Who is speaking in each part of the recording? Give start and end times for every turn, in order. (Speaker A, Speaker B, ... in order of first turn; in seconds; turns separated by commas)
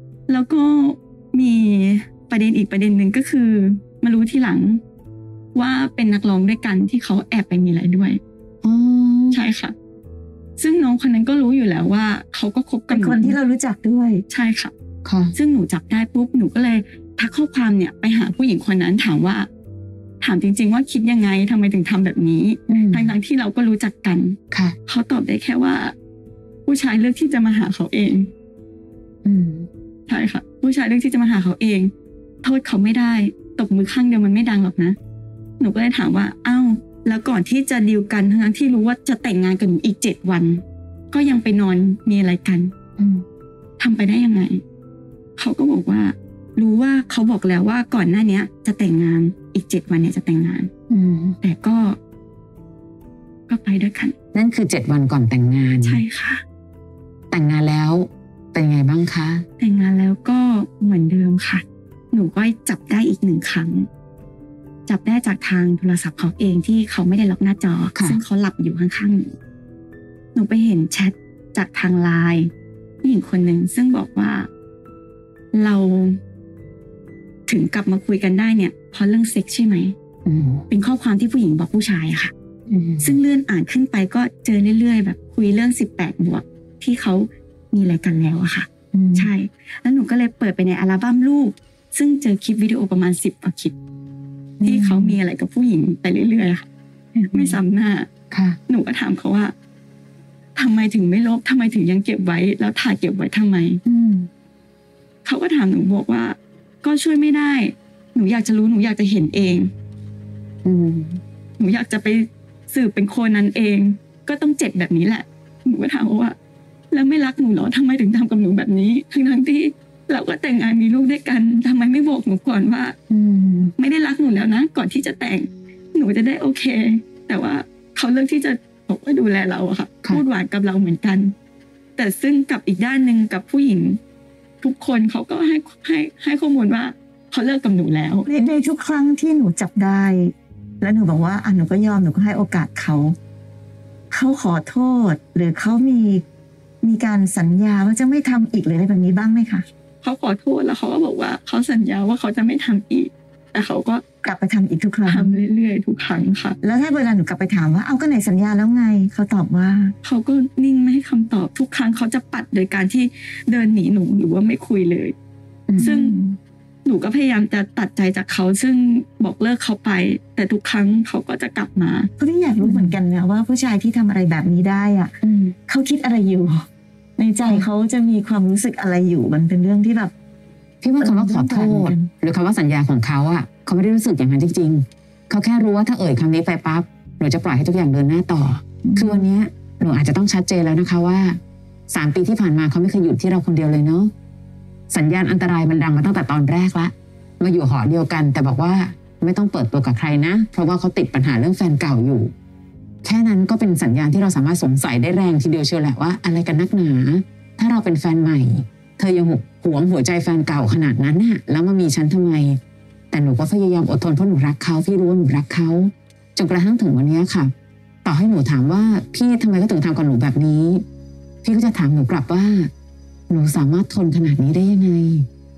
Speaker A: 0.3-4.8, Speaker A: 5.5-8.2, Speaker B: 8.6-9.4, Speaker A: 9.3-9.8, Speaker A: 10.6-13.4, Speaker C: 12.9-14.2, Speaker A: 14.3-14.7, Speaker B: 15.0-15.3, Speaker A: 15.3-19.5, Speaker A: 20.2-25.9, Speaker B: 22.7-23.1, Speaker B: 24.5-24.8, Speaker A: 26.7-28.3, Speaker B: 29.2-29.7, Speaker A: 30.1-31.9, Speaker A: 32.4-35.0, Speaker A: 35.6-42.7, Speaker B: 43.0-43.2, Speaker A: 43.8-44.6, Speaker A: 45.4-50.7, Speaker B: 50.9-51.4, Speaker A: 51.4-52.0, Speaker A: 53.5-54.1, Speaker B: 54.3-56.0, Speaker A: 55.8-56.4, Speaker B: 57.3-59.5, Speaker A: 59.6-63.9, Speaker A: 64.9-69.3, Speaker B: 68.0-68.2, Speaker A: 70.3-72.5, Speaker A: 73.0-74.5, Speaker A: 75.5-76.2, Speaker A: 77.5-80.0, Speaker B: 80.2-80.7, Speaker A: 80.7-82.3, Speaker B: 82.7-83.2, Speaker A: 83.0-93.8, Speaker B: 88.9-89.3, Speaker B: 94.6-95.1, Speaker A: 94.6-96.7, Speaker B: 97.2-97.5, Speaker A: 97.3-98.1, Speaker B: 98.3-98.6, Speaker A: 98.7-99.5, Speaker A: 100.6-103.8, Speaker B: 103.9-104.3, Speaker A: 105.2-109.7, Speaker B: 110.6-111.2, Speaker A: 111.6-116.4, Speaker A: 116.9-123.0, Speaker B: 123.1-123.7, Speaker A: 123.8-131.3, Speaker A: 132.0-134.0, Speaker A: 134.6-138.3, Speaker C: 138.3-143.2, Speaker C: 144.1-146.2, Speaker C: 146.8-149.7, Speaker A: 150.0-154.0, Speaker C: 154.2-155.4, Speaker A: 155.1-156.6, Speaker C: 156.6-159.9, Speaker A: 160.0-165.2, Speaker B: 165.7-165.9, Speaker C: 165.8-166.4, Speaker A: 165.8-166.2, Speaker A: 166.8-172.1, Speaker C: 172.2-176.7, Speaker B: 172.6-173.0, Speaker B: 175.2-175.5, Speaker C: 177.2-180.1, Speaker B: 180.8-191.4, Speaker C: 181.0-182.1, Speaker C: 188.8-189.3, Speaker B: 191.9-194.1, Speaker B: 194.9-202.3, Speaker B: 203.0-212.6, Speaker B: 213.1-217.5, Speaker B: 218.1-220.8, Speaker B: 221.4-222.7, Speaker B: 223.3-225.3